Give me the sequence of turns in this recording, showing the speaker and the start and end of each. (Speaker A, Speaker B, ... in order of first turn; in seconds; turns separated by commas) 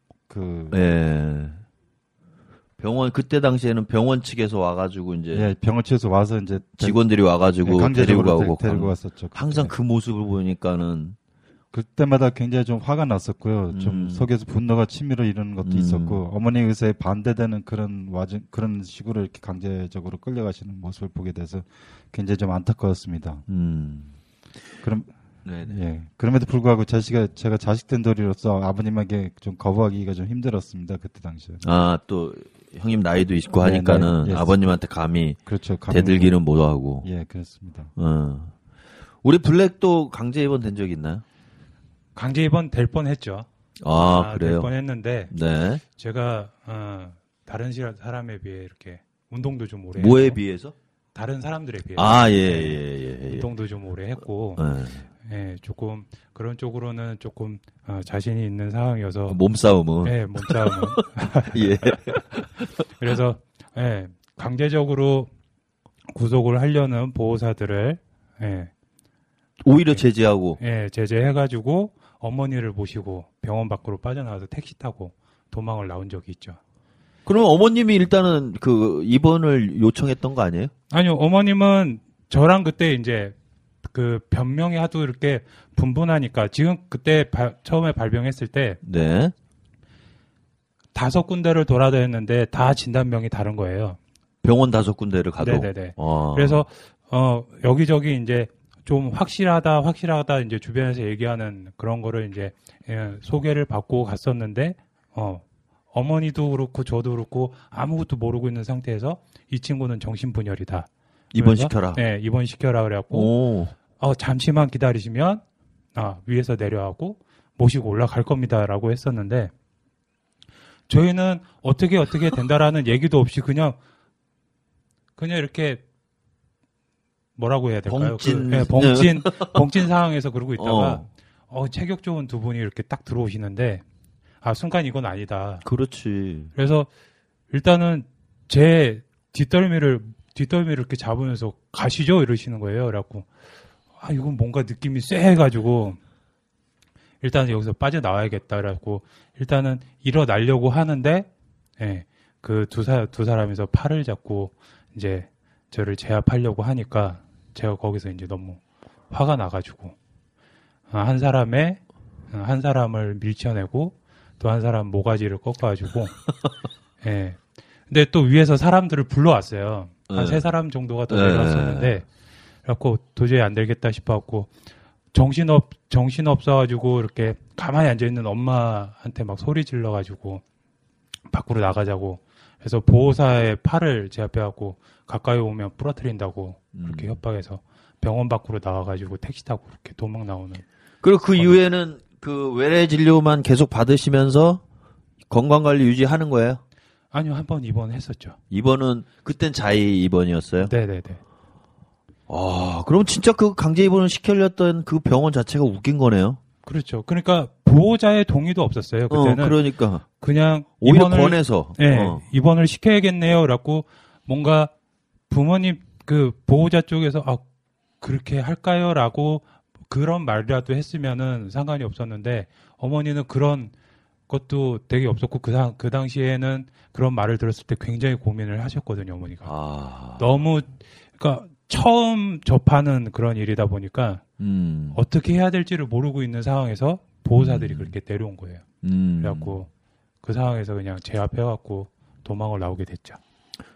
Speaker A: 0.3-0.8, Speaker B: 0.7-1.6, Speaker B: 2.8-5.5, Speaker A: 5.3-7.0, Speaker B: 6.8-11.2, Speaker A: 7.6-9.7, Speaker A: 11.7-23.4, Speaker B: 13.7-14.3, Speaker B: 15.6-16.2, Speaker B: 23.5-24.1, Speaker A: 24.8-31.6, Speaker B: 25.4-25.7, Speaker B: 31.6-37.1, Speaker A: 33.5-34.8, Speaker A: 35.5-36.3, Speaker A: 37.0-37.9, Speaker B: 38.0-38.5, Speaker B: 39.2-41.2, Speaker C: 42.1-43.5, Speaker B: 43.8-44.7, Speaker C: 44.0-45.3, Speaker B: 45.3-45.8, Speaker C: 46.0-50.4, Speaker B: 50.0-50.7, Speaker C: 51.1-54.6, Speaker B: 52.0-53.5, Speaker B: 54.6-55.1, Speaker C: 55.2-59.4, Speaker B: 59.3-61.0, Speaker C: 60.0-62.0, Speaker B: 61.5-62.9, Speaker C: 63.0-65.3, Speaker C: 66.1-68.7, Speaker B: 69.6-70.6, Speaker C: 70.6-76.6, Speaker B: 77.2-80.7, Speaker C: 80.9-83.3, Speaker C: 83.9-88.8, Speaker B: 88.8-89.3, Speaker C: 90.9-94.0, Speaker B: 94.4-96.6, Speaker C: 95.4-113.3, Speaker B: 111.3-112.0, Speaker B: 113.1-113.7, Speaker C: 114.0-115.4, Speaker C: 115.9-119.5, Speaker C: 120.9-123.8, Speaker C: 125.2-125.8, Speaker C: 127.4-133.8, Speaker B: 127.9-129.6, Speaker B: 130.6-131.1, Speaker C: 134.4-135.7, Speaker B: 135.6-136.5, Speaker C: 136.5-136.9, Speaker C: 137.5-143.3, Speaker C: 144.0-146.0, Speaker C: 147.2-151.3, Speaker C: 151.8-159.9, Speaker C: 160.9-161.8, Speaker C: 162.3-166.2, Speaker C: 167.0-172.1, Speaker B: 170.1-170.4, Speaker B: 171.1-171.9, Speaker C: 172.6-174.5, Speaker C: 175.1-180.4, Speaker C: 181.3-190.6, Speaker B: 186.7-187.2, Speaker B: 191.0-194.6, Speaker B: 195.3-196.6, Speaker C: 197.1-198.4, Speaker B: 198.5-200.7, Speaker C: 200.6-201.2, Speaker B: 202.3-206.4, Speaker C: 206.6-209.6, Speaker B: 209.1-210.0, Speaker C: 210.2-214.7, Speaker B: 210.8-212.2, Speaker C: 215.3-217.4, Speaker C: 218.0-223.7, Speaker C: 224.3-229.5, Speaker B: 229.4-230.3, Speaker C: 230.2-234.2, Speaker B: 234.4-235.0, Speaker C: 234.9-238.6, Speaker B: 237.4-237.9, Speaker B: 238.8-239.6, Speaker C: 239.2-239.7, Speaker C: 240.2-243.2